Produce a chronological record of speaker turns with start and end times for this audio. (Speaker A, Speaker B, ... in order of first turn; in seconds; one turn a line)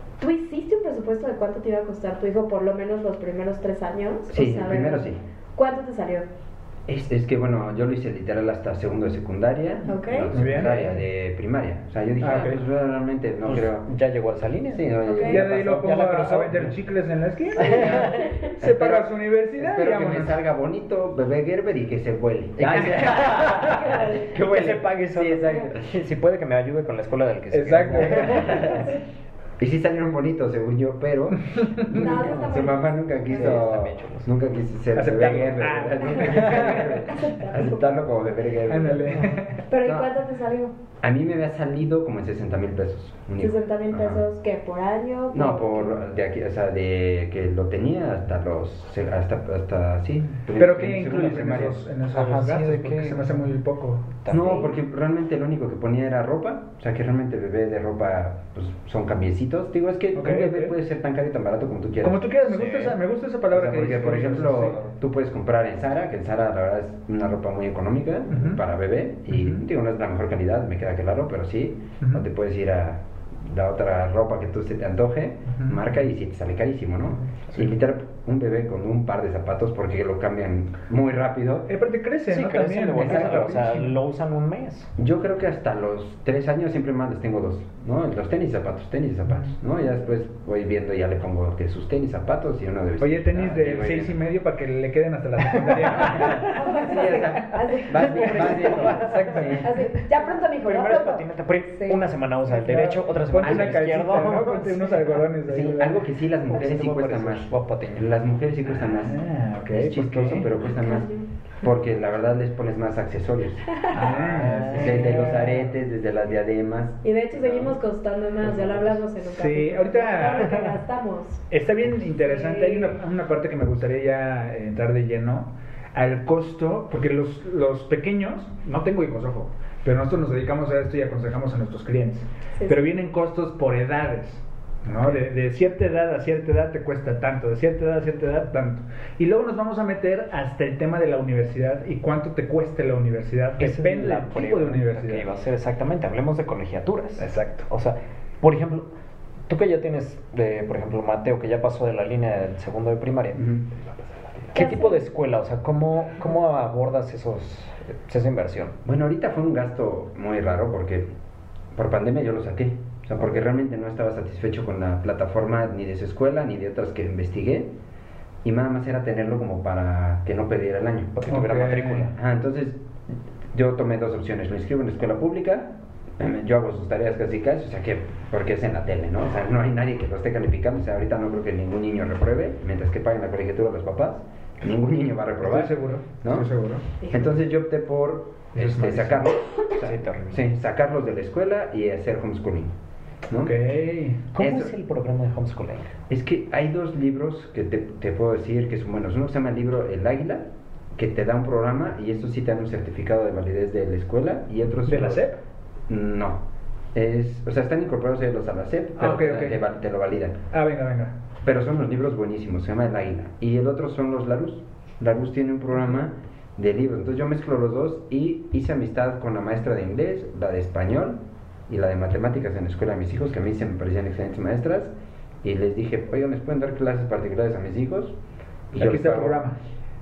Speaker A: 0.2-6.2
Speaker B: 4.3-5.2
Speaker B: 6.9-13.9
Speaker A: 9.9-10.3
Speaker C: 10.3-11.0
Speaker C: 12.2-12.6
Speaker D: 13.4-16.7
Speaker B: 14.7-16.1
Speaker A: 15.0-15.4
Speaker C: 15.2-20.4
Speaker B: 17.6-25.9
Speaker D: 17.7-18.2
Speaker A: 18.2-18.5
Speaker D: 22.6-28.7
Speaker A: 23.7-24.2
Speaker C: 27.5-28.7
Speaker B: 28.0-28.9
Speaker A: 28.3-29.0
Speaker B: 29.6-40.1
Speaker C: 31.5-32.0
Speaker A: 31.9-33.5
Speaker D: 33.3-34.3
Speaker C: 35.0-37.1
Speaker A: 36.2-36.5
Speaker A: 37.0-37.9
Speaker C: 38.7-39.6
Speaker A: 39.7-40.7
Speaker B: 41.0-44.2
Speaker A: 43.4-45.9
Speaker B: 45.3-51.8
Speaker C: 50.5-54.2
Speaker D: 52.1-53.4
Speaker D: 54.2-54.5
Speaker B: 54.3-62.4
Speaker A: 54.3-54.7
Speaker C: 60.1-60.7
Speaker C: 62.0-64.8
Speaker D: 62.5-63.0
Speaker B: 63.5-81.7
Speaker D: 64.6-64.8
Speaker C: 68.3-68.6
Speaker C: 69.3-69.6
Speaker C: 72.0-72.2
Speaker C: 75.5-75.8
Speaker D: 77.4-77.7
Speaker C: 81.7-84.0
Speaker D: 82.3-84.9
Speaker B: 83.0-83.6
Speaker B: 85.0-94.2
Speaker C: 93.0-96.5
Speaker D: 95.7-96.3
Speaker B: 95.8-99.8
Speaker A: 96.4-98.4
Speaker D: 97.9-99.9
Speaker A: 99.6-102.0
Speaker D: 100.4-105.2
Speaker C: 102.5-106.0
Speaker B: 103.4-103.9
Speaker B: 105.5-117.8
Speaker D: 106.5-108.1
Speaker C: 108.9-110.5
Speaker A: 110.6-111.3
Speaker A: 113.7-114.1
Speaker C: 113.9-115.7
Speaker D: 114.1-115.5
Speaker A: 117.0-121.4
Speaker B: 118.4-119.0
Speaker C: 119.2-120.7
Speaker C: 121.5-145.2
Speaker A: 122.2-123.0
Speaker D: 143.6-148.9
Speaker C: 147.2-147.7
Speaker D: 149.5-158.8
Speaker A: 154.5-155.1
Speaker B: 158.8-161.1
Speaker B: 161.7-167.7
Speaker B: 168.4-172.8
Speaker D: 171.2-171.9
Speaker C: 171.3-172.1
Speaker B: 173.5-186.5
Speaker C: 185.4-186.8
Speaker A: 187.0-187.3
Speaker B: 187.1-192.7
Speaker C: 188.5-189.3
Speaker D: 189.8-190.4
Speaker B: 193.3-193.5
Speaker C: 193.4-194.2
Speaker D: 194.3-195.9
Speaker B: 194.4-194.7
Speaker B: 196.1-205.3
Speaker C: 204.9-205.4
Speaker B: 205.9-206.4
Speaker B: 206.9-210.4
Speaker C: 209.0-209.6
Speaker C: 210.5-211.1
Speaker B: 211.4-228.2
Speaker B: 228.7-229.4
Speaker C: 228.7-229.6